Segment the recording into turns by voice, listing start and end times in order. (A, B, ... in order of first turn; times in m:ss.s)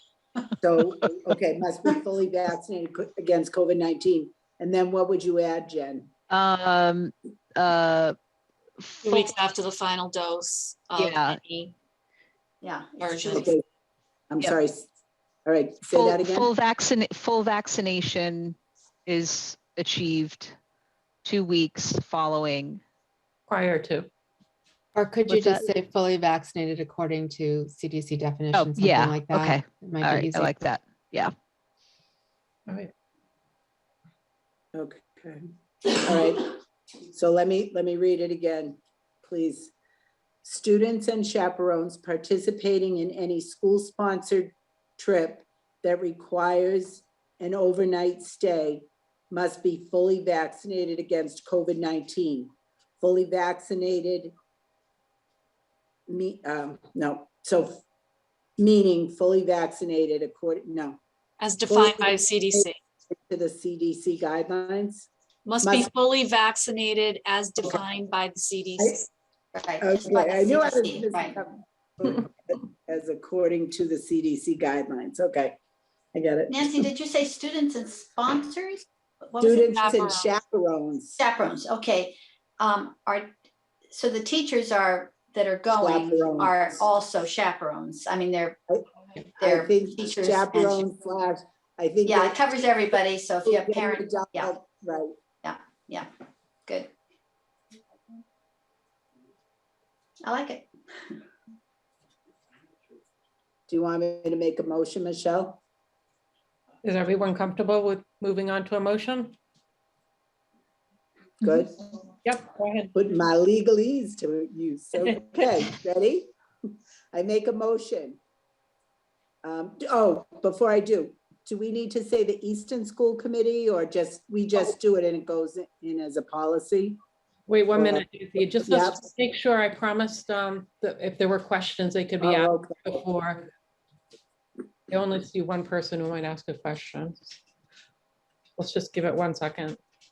0:00.6-0:06.1 A
0:06.3-0:08.2 B
0:08.8-0:09.3 B
0:09.0-0:11.7 C
0:11.0-0:11.4 B
0:12.6-0:13.5 D
0:13.0-0:13.5 C
0:13.3-0:13.6 A
0:14.3-0:14.9 A
0:15.4-0:16.5 A
0:15.9-0:20.6 B
0:21.2-0:22.8 B
0:23.5-0:24.1 E
0:24.9-0:30.5 F
0:25.3-0:25.6 B
0:28.5-0:31.3 B
0:34.7-0:35.4 A
0:35.9-0:36.6 A
0:37.1-0:39.7 A
0:40.4-0:54.3 A
0:56.1-0:57.8 A
0:58.6-1:01.0 A
1:01.4-1:02.8 C
1:01.7-1:05.1 A
1:05.4-1:09.1 C
1:05.6-1:05.9 A
1:08.8-1:09.0 A
1:09.5-1:11.4 D
1:09.8-1:15.6 A
1:16.1-1:16.9 A
1:16.5-1:20.0 D
1:19.4-1:21.2 A
1:19.7-1:20.3 C
1:21.1-1:23.3 D
1:23.9-1:28.6 D
1:25.8-1:26.7 A
1:29.4-1:30.8 D
1:29.4-1:32.4 A
1:32.0-1:34.6 D
1:33.4-1:35.1 A
1:35.4-1:36.1 D
1:36.6-1:36.9 D
1:40.2-1:41.2 D
1:43.7-1:45.6 A
1:46.8-1:49.3 E
1:51.4-1:51.8 A
1:52.2-1:52.9 E
1:52.9-1:56.3 A
1:57.1-1:58.2 A
1:59.4-2:07.0 A
2:07.5-2:13.5 E
2:07.7-2:08.0 A
2:08.6-2:09.0 A
2:12.2-2:13.0 A
2:14.9-2:17.4 E
2:18.6-2:19.8 E